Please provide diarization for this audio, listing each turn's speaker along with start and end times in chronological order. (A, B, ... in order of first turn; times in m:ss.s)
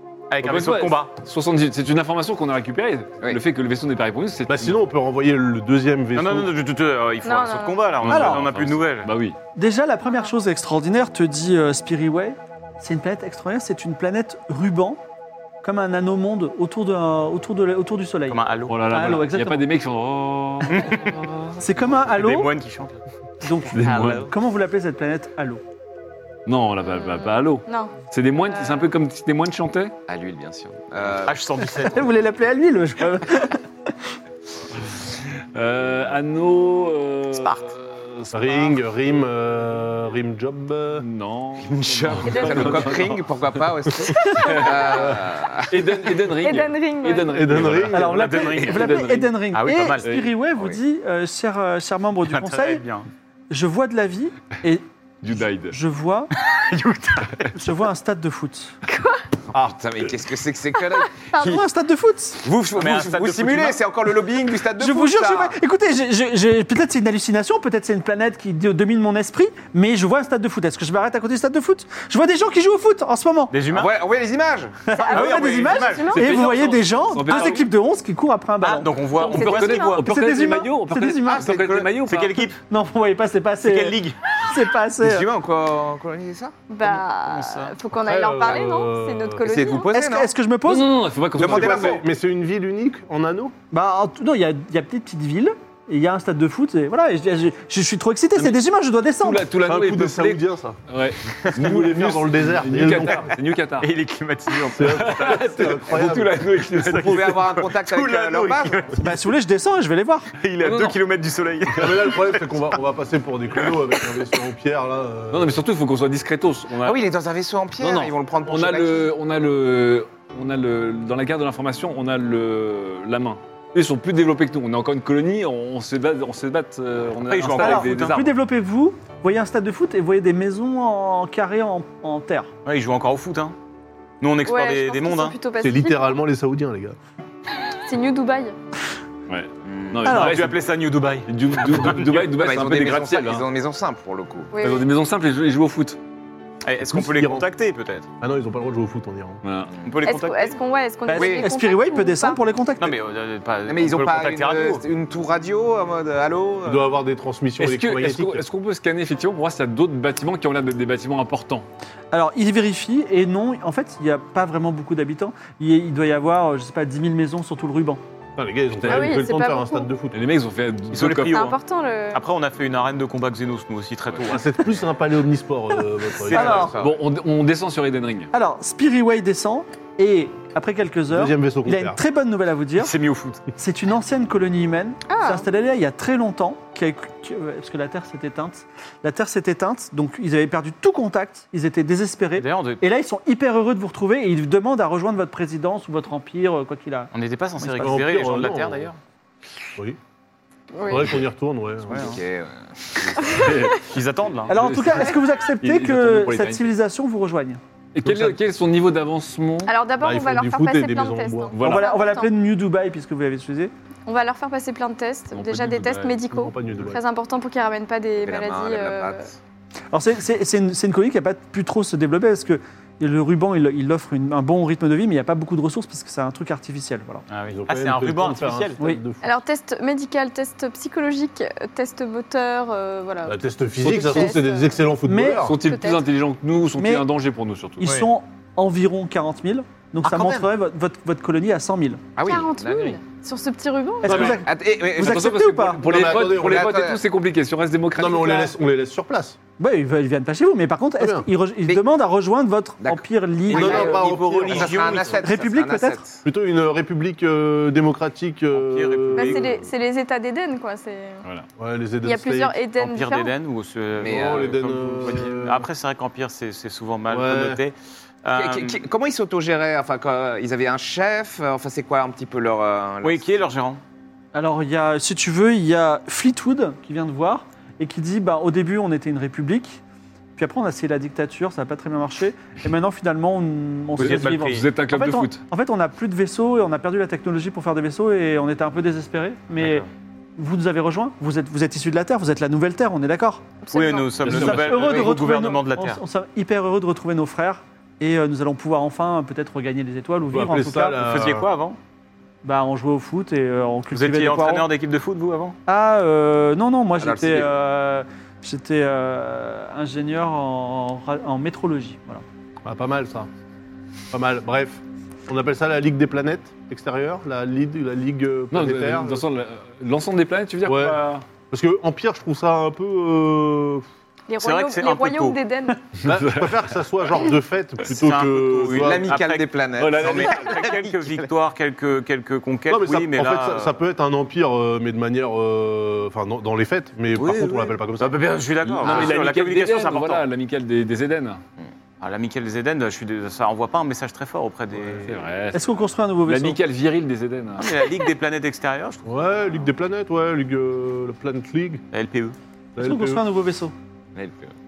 0:00.3-0:01.1 A
0:00.4-0:04.8 B
0:04.5-0:06.5 C
0:06.1-0:09.1 A
0:07.2-0:08.0 D
0:08.0-0:09.4 B
0:08.1-0:08.4 E
0:09.6-0:15.0 E
0:15.6-0:19.6 E
0:18.3-0:19.1 A
0:18.7-0:21.4 B
0:20.7-0:21.2 A
0:21.6-0:22.5 E
0:21.9-0:23.0 A
0:23.4-0:25.6 E
0:23.7-0:24.3 B
0:23.8-0:24.3 A
0:26.4-0:29.9 B
0:26.8-0:28.0 D
0:30.1-0:31.6 F
0:31.2-0:32.1 A
0:31.8-0:33.6 E
0:35.5-0:38.7 B
0:37.4-0:37.7 A
0:38.3-0:41.0 C
0:41.0-0:43.2 B
0:41.6-0:46.3 F
0:42.2-0:43.0 D
0:44.1-0:49.3 B
0:46.4-0:47.4 D
0:47.3-0:48.3 C
0:47.9-0:52.8 E
0:48.0-0:50.0 A
0:50.0-0:50.3 B
0:52.2-0:53.1 A
0:53.5-0:54.8 E
0:55.2-0:55.8 B
0:55.7-0:56.3 E
0:56.5-0:57.5 A
0:57.5-0:58.8 E
0:58.9-0:59.2 D
0:59.5-1:01.6 F
1:01.4-1:02.4 E
1:02.4-1:05.5 F
1:02.7-1:03.8 A
1:04.8-1:13.5 E
1:13.5-1:13.9 A
1:13.7-1:14.8 F
1:14.9-1:18.9 E
1:14.9-1:16.4 D
1:15.0-1:16.2 A
1:16.1-1:17.7 B
1:17.3-1:17.6 A
1:18.6-1:20.0 A
1:19.1-1:22.5 B
1:19.2-1:20.0 D
1:20.0-1:21.5 E
1:21.3-1:22.0 F
1:22.0-1:22.6 A
1:22.7-1:25.3 E
1:23.6-1:24.2 A
1:25.0-1:26.5 F
1:26.7-1:29.9 D
1:26.8-1:27.7 A
1:28.0-1:29.4 C
1:29.4-1:30.3 F
1:29.9-1:30.9 E
1:30.6-1:32.0 B
1:31.3-1:33.5 C
1:31.4-1:32.0 F
1:33.7-1:39.4 E
1:39.2-1:43.9 B
1:39.6-1:40.8 C
1:41.5-1:43.3 C
1:43.8-1:45.5 A
1:44.7-1:46.5 C
1:44.8-1:47.4 B
1:46.7-1:49.2 A
1:47.0-1:48.8 F
1:49.0-1:50.3 E
1:50.3-1:52.5 A
1:50.6-1:51.0 B
1:51.7-1:55.6 C
1:55.3-1:57.0 B
1:56.8-1:59.1 F
1:57.8-2:08.3 B
2:07.3-2:08.2 A
2:07.6-2:12.5 E
2:12.6-2:13.5 A
2:14.2-2:15.4 A
2:14.4-2:16.2 D
2:15.6-2:17.0 C
2:17.9-2:18.6 D
2:19.3-2:20.6 B
2:19.6-2:20.2 F
2:20.0-2:20.3 E
2:20.1-2:22.3 A
2:21.2-2:23.5 B
2:22.2-2:24.5 F
2:24.5-2:24.9 D
2:24.6-2:26.0 B
2:26.6-2:28.1 A
2:26.9-2:27.4 C
2:28.2-2:29.4 C
2:29.4-2:29.7 B
2:29.8-2:30.6 A
2:30.0-2:32.4 D
2:31.0-2:32.9 E
2:31.1-2:31.5 F
2:32.8-2:34.8 A
2:33.7-2:36.9 F
2:36.6-2:38.4 C
2:37.6-2:41.7 B
2:42.1-2:48.0 E
2:48.4-2:50.2 C
2:48.8-2:49.2 B
2:48.8-2:49.9 D
2:50.1-2:51.5 B
2:50.9-2:51.6 A
2:51.3-2:52.2 D
2:52.1-2:54.6 A
2:54.2-2:56.7 C
2:56.3-2:57.0 F
2:56.3-2:56.7 E
2:56.7-2:58.3 B
2:58.3-3:02.9 E
3:01.1-3:02.0 C
3:02.8-3:03.4 A
3:03.6-3:17.1 E
3:05.1-3:05.5 D
3:12.4-3:12.8 A
3:17.1-3:19.0 A
3:17.8-3:18.9 C
3:20.7-3:21.1 D
3:20.8-3:22.2 C
3:21.9-3:23.7 F
3:21.9-3:22.2 A
3:23.3-3:23.9 B
3:23.8-3:24.5 A
3:24.5-3:26.7 B
3:24.5-3:27.6 E
3:27.9-3:29.7 B
3:28.0-3:28.4 C
3:29.6-3:32.3 D
3:30.0-3:31.6 C
3:31.5-3:31.9 B
3:31.6-3:33.7 E
3:34.0-3:39.2 D
3:35.3-3:36.2 B
3:36.3-3:37.0 C
3:38.2-3:39.3 F
3:39.9-3:47.2 E
3:47.3-3:48.8 A
3:47.5-3:49.3 C
3:49.2-3:54.8 D
3:53.2-3:55.6 C
3:55.0-3:55.5 E
3:55.4-3:58.0 B
3:55.6-3:56.0 D
3:56.8-3:57.0 E
3:57.8-4:02.0 E
4:00.0-4:00.4 A
4:02.2-4:03.0 F
4:02.2-4:04.4 D
4:04.0-4:05.8 E
4:04.0-4:07.0 F
4:05.0-4:08.5 B
4:05.8-4:06.8 C
4:07.9-4:09.4 C
4:09.6-4:13.9 E
4:11.0-4:11.3 C
4:12.8-4:16.2 F
4:13.5-4:15.2 A
4:13.5-4:15.1 C
4:15.2-4:16.0 E
4:16.2-4:19.5 C
4:18.5-4:19.6 A
4:19.2-4:21.2 D
4:21.6-4:22.6 C
4:22.0-4:23.3 D
4:22.8-4:28.8 A
4:24.0-4:24.6 F
4:24.0-4:25.7 C
4:27.1-4:27.6 C
4:28.4-4:33.2 F
4:33.0-4:33.8 A
4:34.3-4:39.8 E
4:40.4-4:49.8 E
4:44.0-4:44.7 A
4:44.0-4:45.4 B
4:50.4-4:53.4 E
4:53.6-4:54.3 D
4:53.7-4:56.0 A
4:54.2-4:55.1 B
4:54.2-5:01.0 E
5:00.3-5:01.5 C
5:01.0-5:01.8 A
5:02.4-5:04.7 E
5:03.9-5:05.6 A
5:05.7-5:12.2 E
5:07.0-5:07.5 F
5:12.6-5:13.3 C
5:14.1-5:19.2 C
5:18.5-5:21.2 B
5:20.6-5:23.8 C
5:24.3-5:25.9 D
5:24.4-5:25.4 A
5:26.0-5:26.7 B
5:26.0-5:29.2 C
5:27.9-5:33.7 A
5:28.7-5:31.2 F
5:29.8-5:30.7 B
5:32.7-5:38.2 C
5:37.2-5:37.7 F
5:38.0-5:40.2 A
5:38.7-5:41.4 B
5:38.8-5:39.1 C
5:42.0-5:45.2 A
5:45.0-5:47.7 B
5:45.5-5:46.6 E
5:47.6-5:49.7 A
5:49.0-5:51.8 C
5:51.9-5:52.4 A
5:52.8-5:53.2 C
5:52.8-5:53.7 E
5:54.2-5:54.5 F